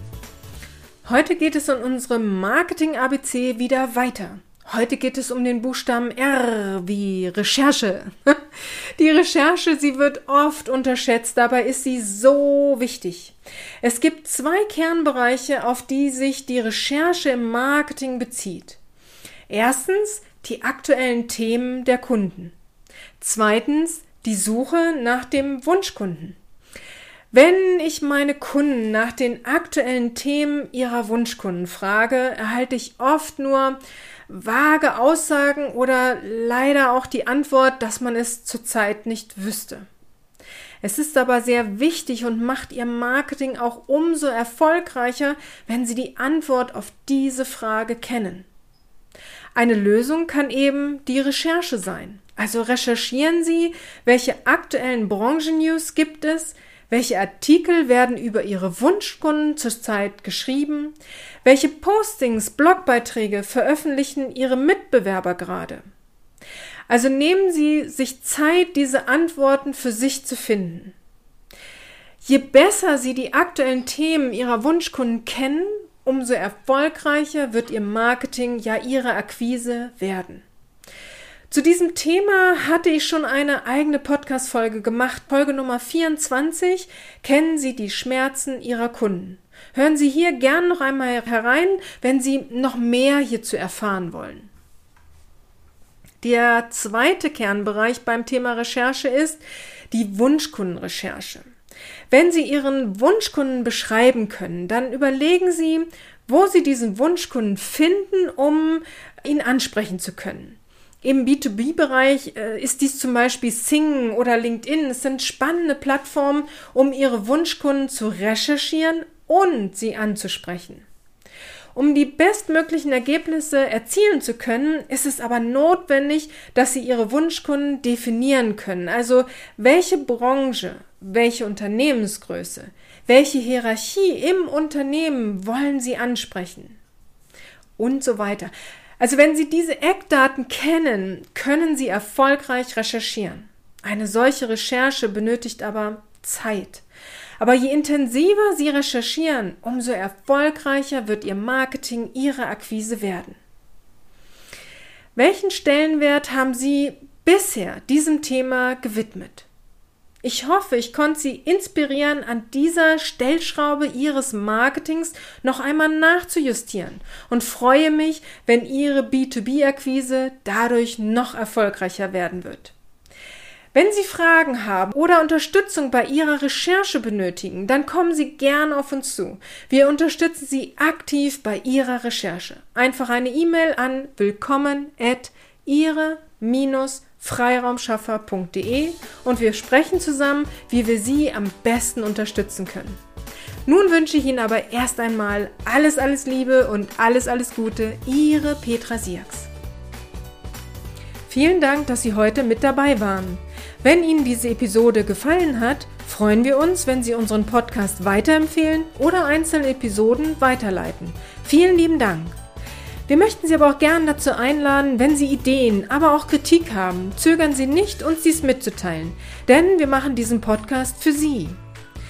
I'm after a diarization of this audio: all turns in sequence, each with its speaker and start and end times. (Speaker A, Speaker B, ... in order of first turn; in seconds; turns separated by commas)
Speaker A: 1.0-8.4, Speaker A: 8.9-18.8, Speaker A: 19.5-22.5, Speaker A: 23.2-26.4, Speaker A: 27.3-39.9, Speaker A: 40.8-48.5, Speaker A: 49.5-65.8, Speaker A: 66.9-70.9, Speaker A: 72.2-80.4, Speaker A: 81.5-94.5, Speaker A: 96.2-101.5, Speaker A: 102.1-120.8, Speaker A: 121.7-136.8, Speaker A: 137.8-146.8, Speaker A: 147.4-153.4, Speaker A: 155.2-159.5, Speaker A: 160.2-172.7, Speaker A: 173.7-193.0, Speaker A: 193.7-199.5, Speaker A: 201.3-212.3, Speaker A: 213.1-221.6